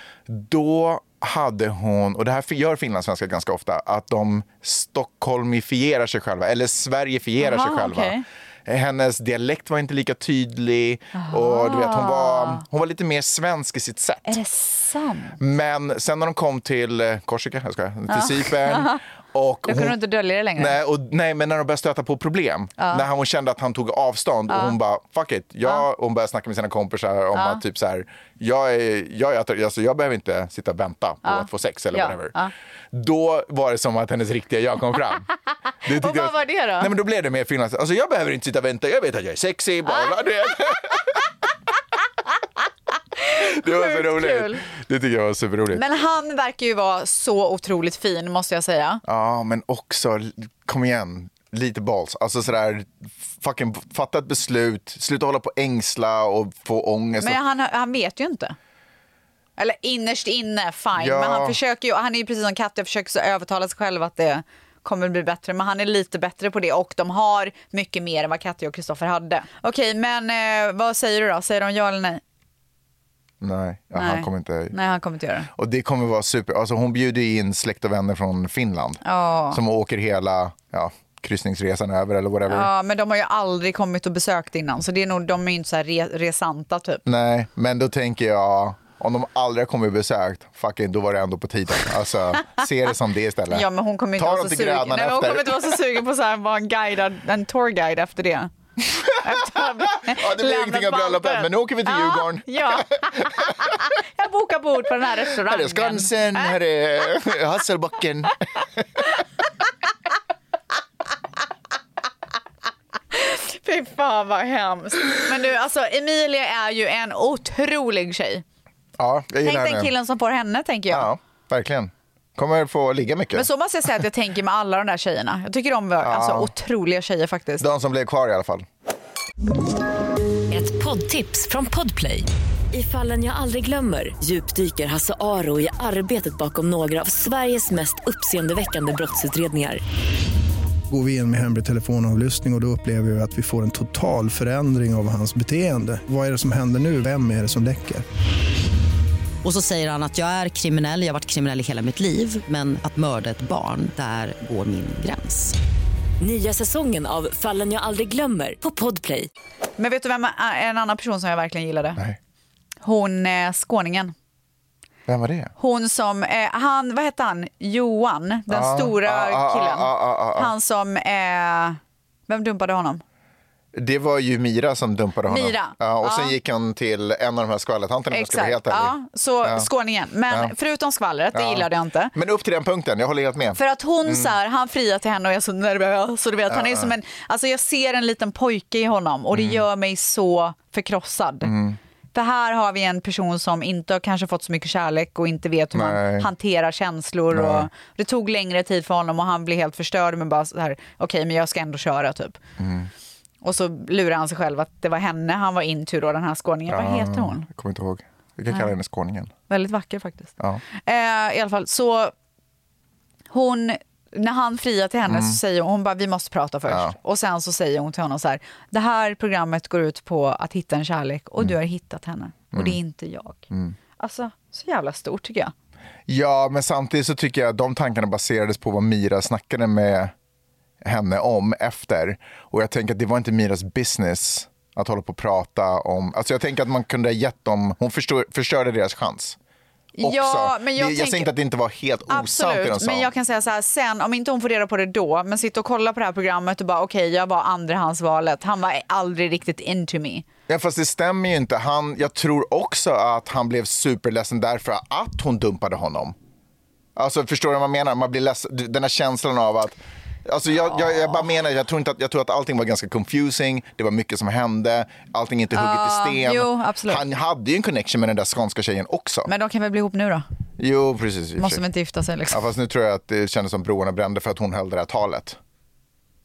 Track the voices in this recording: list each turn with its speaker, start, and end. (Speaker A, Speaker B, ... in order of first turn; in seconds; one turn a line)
Speaker A: 0.3-14.4
Speaker B: 7.4-8.2
Speaker B: 11.1-12.6
Speaker B: 14.2-15.4
Speaker A: 15.4-20.0
Speaker B: 18.1-19.0
Speaker B: 19.6-20.8
Speaker A: 20.6-32.3
Speaker B: 22.8-23.1
Speaker B: 24.5-24.8
Speaker B: 27.3-27.6
Speaker B: 31.2-32.5
Speaker A: 32.9-35.3
Speaker A: 35.8-41.2
Speaker B: 35.9-36.9
Speaker B: 43.2-44.6
Speaker A: 43.3-45.8
Speaker B: 45.7-49.0
Speaker A: 49.0-57.4
Speaker B: 57.2-58.5
Speaker B: 59.6-72.2
Speaker A: 61.0-61.6
Speaker A: 73.4-74.8
Speaker B: 73.9-75.5
Speaker A: 75.5-82.7
Speaker B: 79.0-79.6
Speaker B: 82.5-87.0
Speaker A: 87.0-95.8
Speaker B: 93.5-98.5
Speaker A: 98.8-103.7
Speaker B: 99.2-106.5
Speaker A: 105.3-109.0
Speaker B: 113.1-118.4
Speaker A: 119.0-119.9
Speaker B: 119.4-121.1
Speaker A: 120.9-123.5
Speaker B: 123.3-127.7
Speaker A: 126.0-126.5
Speaker A: 127.6-128.6
Speaker C: 130.5-139.8
Speaker D: 140.9-148.0
Speaker E: 149.4-155.5
Speaker C: 156.2-159.3
Speaker B: 159.8-162.0
Speaker B: 162.8-164.1
Speaker A: 165.1-165.5
Speaker B: 165.6-173.0
Speaker A: 168.5-170.5
Speaker A: 173.7-179.7
Speaker B: 175.3-176.3
Speaker B: 178.1-182.1
Speaker A: 181.3-184.3
Speaker B: 183.6-191.5
Speaker A: 186.5-186.9
Speaker A: 189.3-189.6
Speaker A: 191.4-191.8
Speaker B: 192.1-202.4
Speaker A: 195.7-196.3
Speaker A: 197.3-197.7
Speaker A: 202.6-202.9
Speaker B: 203.4-207.4
Speaker A: 206.7-209.3
Speaker B: 209.5-212.1
Speaker B: 213.3-225.5
Speaker A: 215.1-215.4
Speaker A: 216.7-216.9
Speaker A: 226.1-230.1
Speaker A: 230.8-239.4
Speaker B: 239.9-241.3
Speaker A: 240.0-243.1
Speaker B: 242.1-250.2
Speaker A: 250.5-256.1
Speaker A: 256.9-269.3
Speaker B: 265.5-267.0
Speaker B: 269.3-270.3
Speaker A: 270.6-271.6
Speaker B: 271.4-272.4
Speaker A: 272.3-275.4